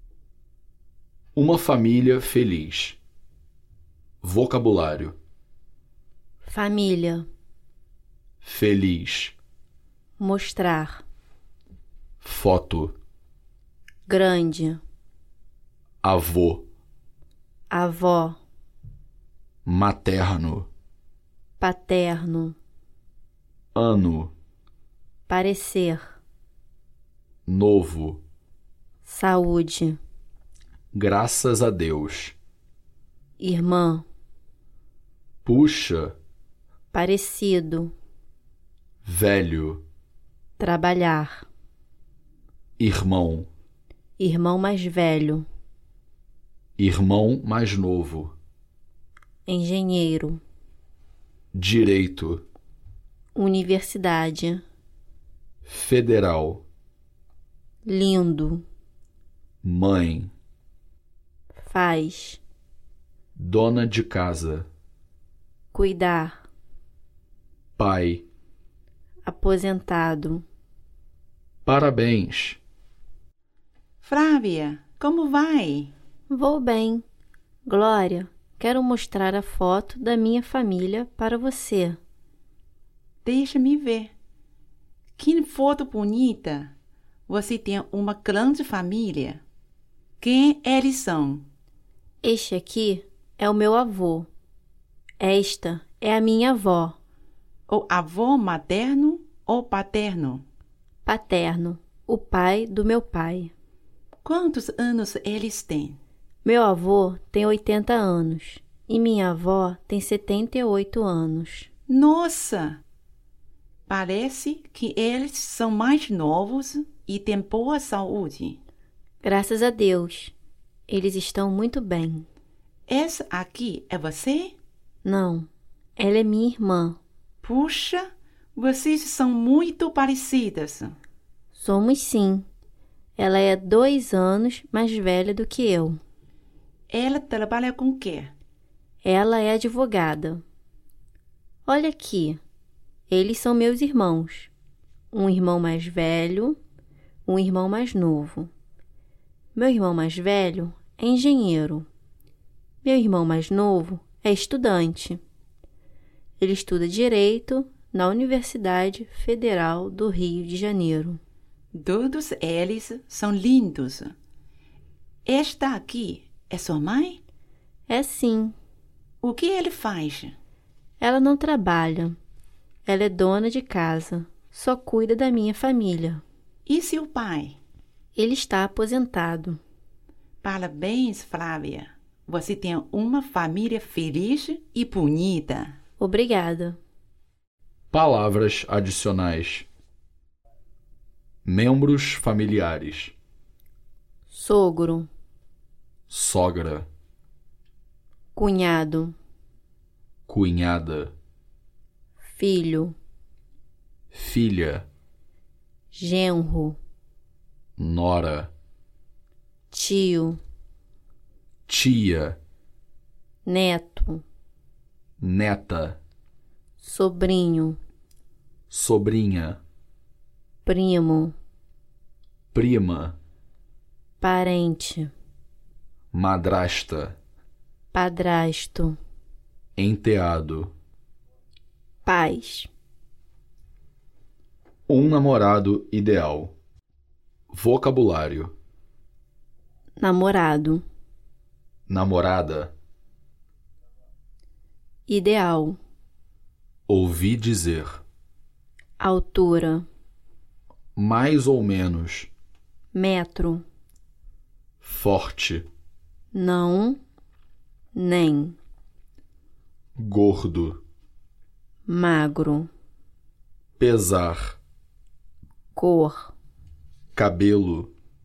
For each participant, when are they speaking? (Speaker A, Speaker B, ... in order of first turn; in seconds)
Speaker A: 1.3-3.0, 4.2-5.2, 8.4-9.3, 12.2-12.9, 16.0-16.6, 19.6-20.7, 23.7-24.3, 27.4-28.2, 30.9-32.4, 35.4-36.1, 39.0-39.8, 42.8-43.5, 46.8-48.3, 51.5-52.4, 55.6-56.6, 59.6-60.3, 63.3-64.7, 67.8-68.2, 71.6-72.6, 187.9-189.7, 191.4-193.1, 196.1-196.9, 200.3-201.1, 204.1-204.8, 207.8-208.5, 211.7-212.4, 215.2-216.0, 218.7-219.6, 222.5-223.2, 226.1-227.2, 229.8-230.7, 234.9-236.5, 237.5-238.5, 241.9-242.7, 246.9-248.0, 250.9-252.3, 254.8-255.7, 260.0-260.8, 263.8-264.6, 267.1-267.9
Speaker B: 6.4-7.3, 10.2-11.0, 14.1-14.8, 17.7-18.4, 21.6-22.6, 25.3-26.2, 29.0-30.0, 33.4-34.0, 36.9-37.9, 40.6-41.5, 44.2-45.5, 49.5-50.4, 53.3-54.6, 57.8-58.6, 61.6-62.4, 65.7-66.4, 69.2-70.4, 76.3-77.0, 77.7-82.0, 92.2-94.3, 95.2-97.0, 101.0-103.5, 106.4-111.7, 119.2-120.3, 120.9-122.2, 125.0-127.0, 131.5-132.4, 133.2-136.0, 139.0-140.4, 141.7-142.4, 143.1-144.5, 145.1-146.6, 147.2-148.5, 149.5-151.9, 152.8-155.2, 156.4-161.2, 167.9-168.5, 171.0-172.2, 172.8-176.2, 178.2-179.6, 186.0-186.8, 194.3-195.1, 198.3-199.2, 202.3-202.9, 205.9-206.8, 209.7-210.4, 213.4-214.2, 216.8-217.8, 220.6-221.3, 224.2-225.1, 227.9-229.0, 232.1-232.7, 240.0-240.8, 245.1-245.8, 249.0-249.8, 252.9-253.6, 256.3-257.0, 257.9-258.6, 261.9-262.7, 265.8-266.3
Speaker C: 74.0-75.9, 83.2-84.1, 85.2-86.7, 87.3-89.4, 90.2-91.4, 97.7-100.4, 104.2-106.0, 111.9-112.8, 113.9-118.6, 122.9-124.5, 127.4-130.9, 136.9-138.3, 161.7-164.1, 165.2-167.2, 169.2-170.3, 176.7-177.6, 180.4-185.7